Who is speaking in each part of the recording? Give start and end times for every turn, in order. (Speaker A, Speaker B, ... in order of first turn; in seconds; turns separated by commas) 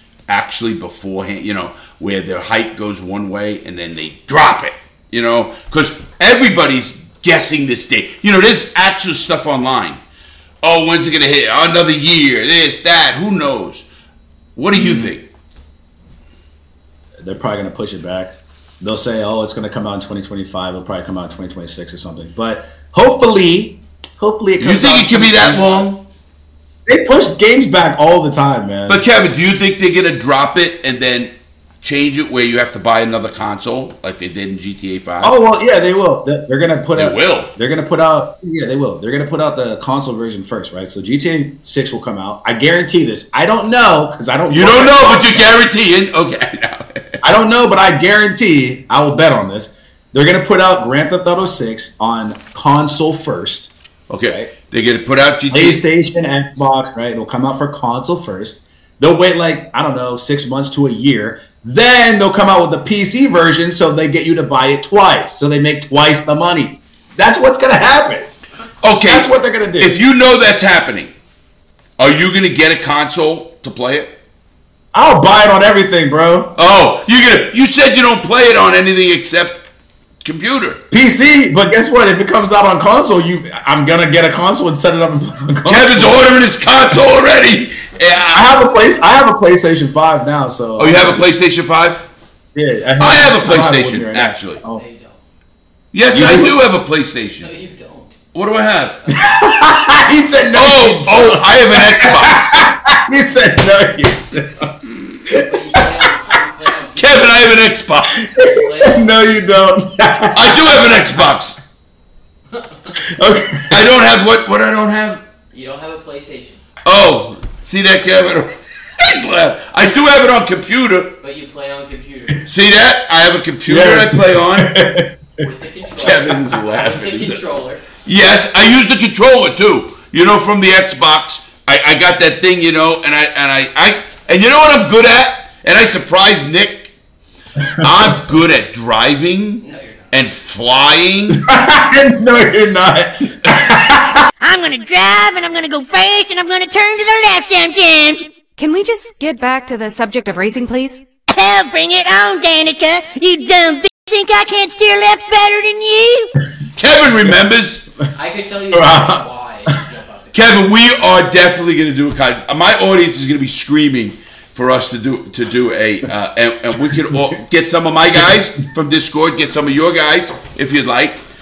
Speaker A: 0.3-10.0, Speaker A: 10.6-13.9, Speaker A: 14.6-15.3, Speaker B: 14.7-15.1, Speaker B: 17.2-25.9, Speaker A: 24.6-26.0, Speaker B: 26.9-29.0, Speaker A: 28.9-35.4, Speaker B: 35.2-45.6, Speaker A: 37.0-37.5, Speaker A: 44.5-47.2, Speaker B: 47.2-53.7, Speaker A: 54.1-55.8, Speaker B: 55.5-68.3, Speaker A: 68.8-71.1, Speaker B: 69.1-70.0, Speaker A: 72.0-74.1, Speaker B: 74.9-76.5, Speaker A: 76.5-79.7, Speaker A: 80.2-80.8, Speaker B: 80.9-86.3, Speaker A: 85.7-88.6, Speaker B: 88.3-91.3, Speaker A: 90.8-92.1, Speaker B: 92.5-94.8, Speaker A: 93.0-94.6, Speaker C: 94.7-95.2, Speaker A: 95.9-97.5, Speaker B: 96.1-96.6, Speaker C: 97.4-98.2, Speaker A: 98.3-99.0, Speaker C: 99.0-99.3, Speaker B: 99.1-104.8, Speaker A: 100.5-102.7, Speaker B: 105.3-106.4, Speaker C: 105.4-107.4, Speaker A: 106.9-108.2, Speaker B: 108.3-111.0, Speaker C: 108.4-109.0, Speaker A: 110.3-111.6, Speaker B: 113.0-113.8, Speaker A: 113.7-115.2, Speaker C: 115.5-116.6, Speaker A: 116.8-121.1, Speaker C: 121.2-122.4, Speaker A: 122.5-124.8, Speaker B: 123.7-125.4, Speaker C: 125.4-127.8, Speaker A: 126.0-127.4, Speaker A: 128.1-136.9, Speaker A: 137.8-141.4, Speaker C: 139.6-140.1, Speaker B: 141.3-144.3, Speaker D: 144.4-148.3, Speaker E: 148.6-151.0, Speaker D: 151.3-156.3, Speaker A: 156.8-157.9, Speaker C: 158.2-160.4, Speaker B: 158.7-159.8, Speaker A: 160.3-171.2